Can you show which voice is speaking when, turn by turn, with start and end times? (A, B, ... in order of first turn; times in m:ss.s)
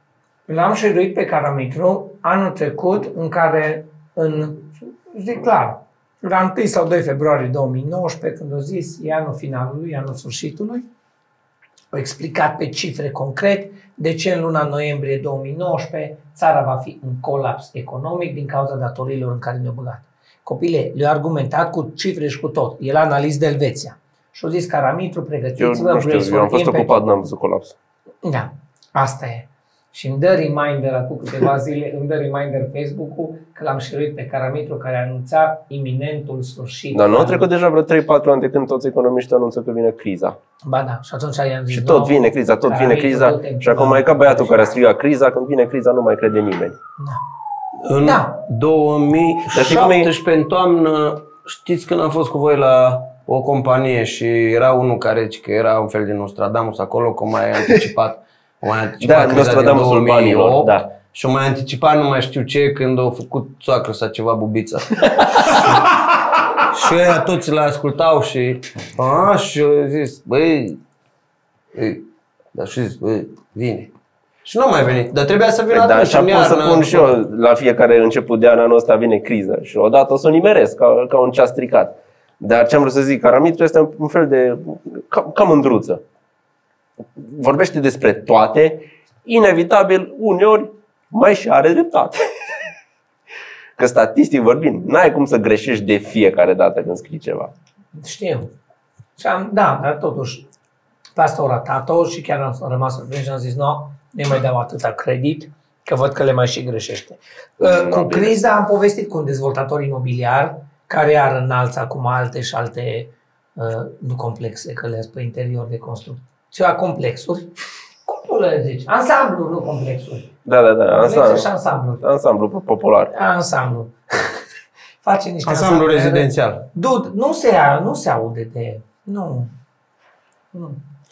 0:00.5-0:10.8 A
0:11.9-0:27.0 A
0:25.6-0:27.7 B
0:28.2-0:37.4 A
0:36.9-0:40.4 B
0:40.6-0:44.7 A
0:41.7-0:46.8 B
0:47.8-1:05.9 C
0:48.0-0:48.4 A
0:49.5-0:50.1 B
0:59.0-1:00.8 B
1:06.6-1:10.8 C
1:11.7-1:13.9 C
1:14.4-1:17.2 C
1:15.7-1:26.0 B
1:27.2-1:32.3 B
1:33.8-1:37.5 B
1:37.9-1:38.5 A
1:39.2-1:40.4 A
1:41.2-1:57.5 A
1:47.6-1:48.4 B
1:58.0-2:00.3 A
2:00.4-2:03.1 B
2:00.9-2:02.0 A
2:03.1-2:04.4 A
2:05.0-2:09.5 A
2:05.4-2:06.6 C
2:10.5-2:10.8 A